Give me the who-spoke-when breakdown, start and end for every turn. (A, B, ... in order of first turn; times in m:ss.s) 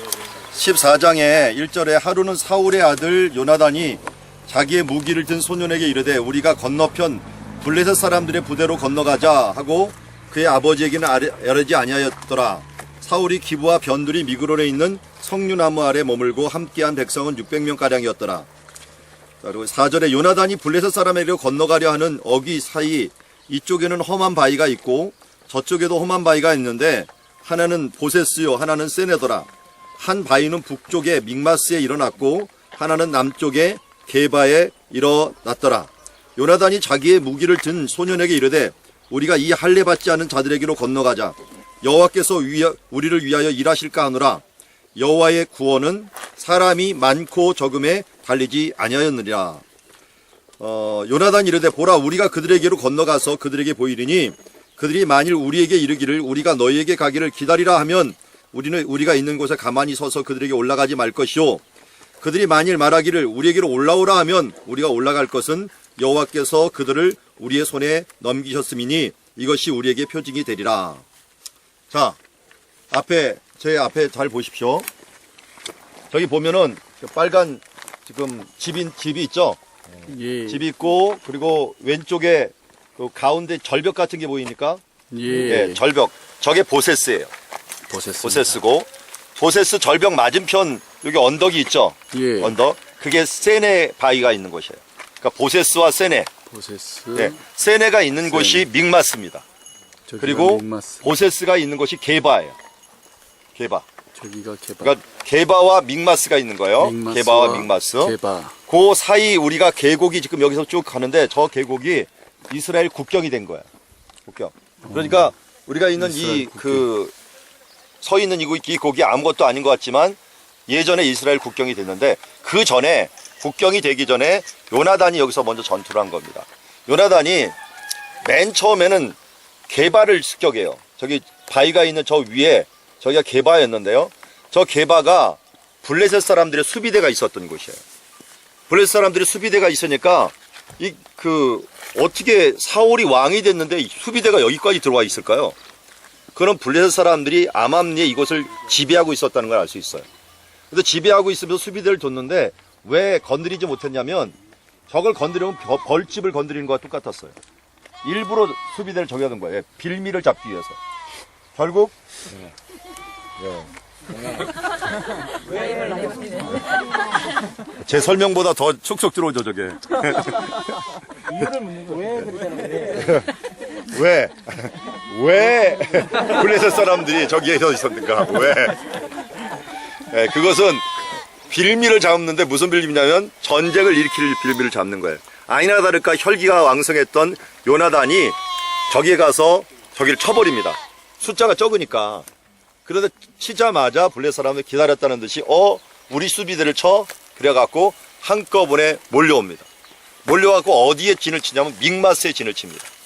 0:00.5-0:18.5 A
0:19.4-0:44.4 A
0:45.0-0:49.6 A
0:50.6-1:01.6 A
1:02.2-1:11.0 A
1:11.9-1:12.2 A
1:12.9-1:14.8 A
1:16.1-1:24.8 A
1:20.0-1:20.6 B
1:25.1-1:25.8 B
1:25.4-1:27.3 A
1:27.9-1:28.6 B
1:28.2-1:36.3 A
1:32.1-1:32.5 B
1:36.5-1:37.4 B
1:37.1-1:39.4 A
1:38.3-1:38.7 B
1:40.1-1:41.0 B
1:40.2-1:42.6 A
1:43.5-1:43.9 A
1:44.1-1:44.9 B
1:44.8-1:48.1 A
1:46.8-1:48.6 B
1:48.7-1:53.7 A
1:54.2-1:57.1 A
1:54.9-1:55.2 B
1:56.0-1:56.8 B
1:58.0-2:07.5 A
2:08.2-2:09.2 A
2:09.7-2:17.8 A
2:18.7-2:25.6 A
2:26.3-2:30.1 A
2:30.7-2:34.4 A
2:34.9-2:37.4 A
2:38.0-2:40.8 A
2:41.6-2:42.0 A
2:43.4-2:43.7 A
2:47.8-2:50.7 A
2:52.8-2:53.3 A
2:53.9-2:58.8 A
3:00.1-3:00.9 A
3:01.5-3:12.2 A
3:12.8-3:19.7 A
3:20.2-3:22.9 A